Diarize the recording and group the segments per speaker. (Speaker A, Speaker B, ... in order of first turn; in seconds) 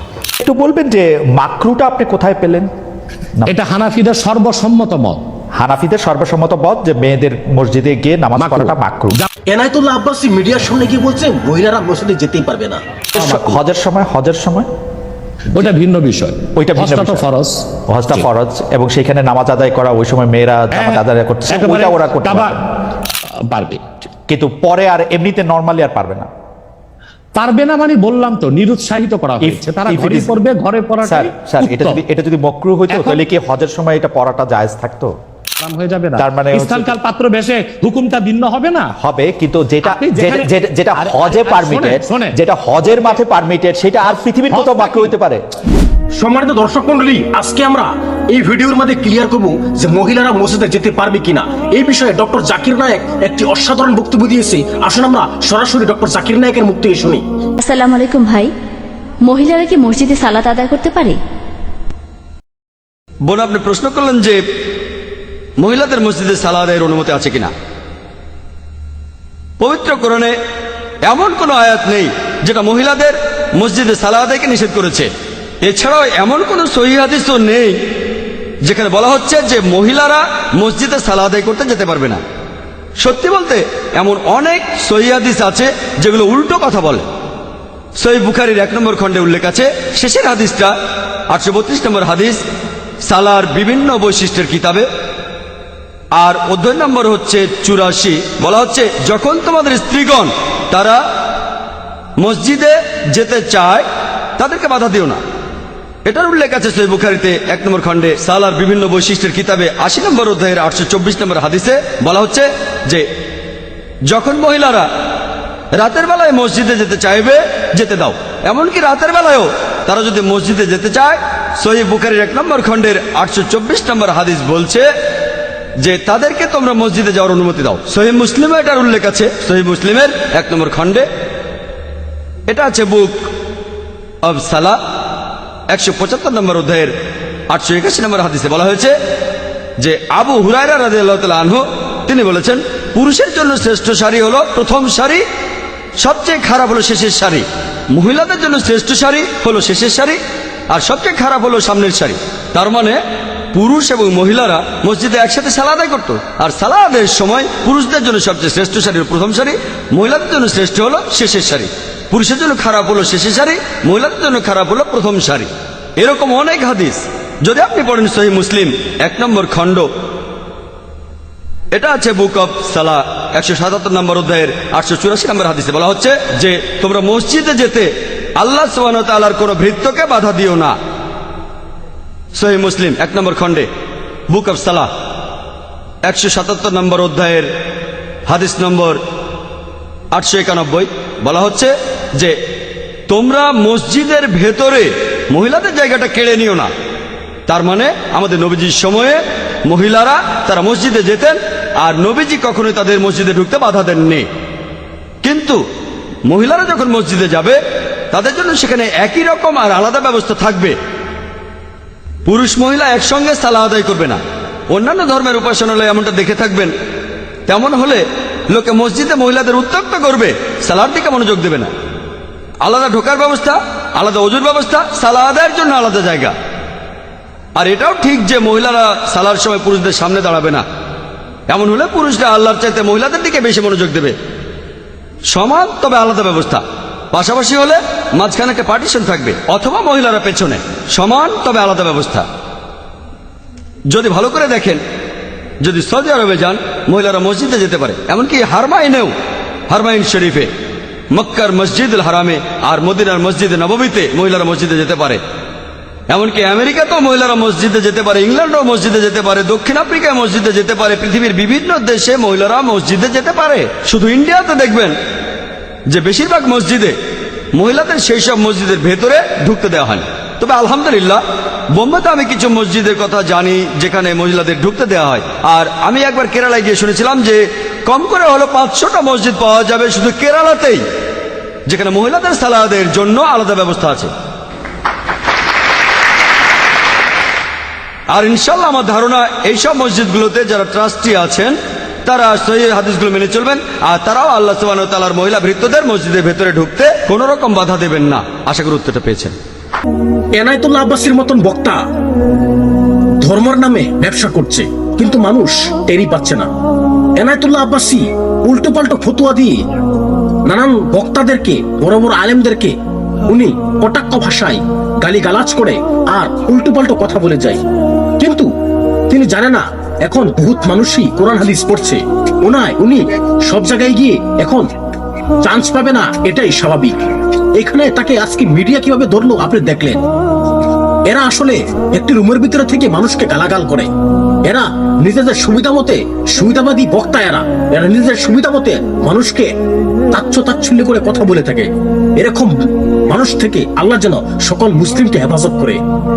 Speaker A: 0.4-2.7, 5.6-9.2, 13.1-14.7, 16.6-17.2, 17.9-22.5, 24.3-26.3, 29.4-30.3, 31.0-35.1, 36.2-37.0, 39.0-45.4
Speaker B: 3.5-5.2, 8.4-9.2, 13.2-13.6, 15.5-17.6, 20.7-22.5, 23.3-23.8, 27.3-32.0, 32.9-33.2, 35.6-38.9, 39.8-42.4, 44.5-45.1
Speaker C: 9.5-12.8, 46.2-57.2, 300.4-301.8, 303.2-306.5, 307.2-309.6, 310.4-312.7, 313.3-317.6, 318.2-318.4, 319.1-324.6, 325.4-326.9, 327.6-330.0, 331.1-333.9, 334.4-339.5, 340.1-341.6, 342.2-342.5, 343.1-345.8
Speaker D: 57.6-58.5, 59.2-61.2
Speaker E: 63.2-64.4, 65.6-67.5, 69.6-70.3, 71.0-75.1, 75.6-77.8, 78.6-82.2, 83.0-87.0, 88.0-90.7, 91.3-92.4, 93.0-94.8, 96.2-101.0, 102.2-103.8, 104.4-105.2, 106.0-113.0, 114.1-114.9, 115.8-124.9, 125.8-131.1, 132.5-133.3, 134.2-134.8, 135.7-136.9, 137.5-138.9, 139.8-145.2, 146.0-150.2, 150.7-153.0, 153.5-169.9, 171.7-180.8, 182.3-183.7, 184.3-184.9, 186.0-187.5, 188.3-189.0, 190.1-192.3, 193.1-196.7, 197.5-204.2, 205.2-205.6, 206.3-207.6, 208.1-210.8, 212.2-214.2, 214.7-216.7, 217.5-221.7, 222.6-226.3, 227.6-230.7, 231.5-234.2, 235.3-242.3, 243.9-244.8, 245.6-249.1, 249.7-250.5, 251.1-255.2, 256.1-264.9, 265.9-266.9, 267.5-271.2, 271.7-280.8, 281.7-284.1, 288.1-299.4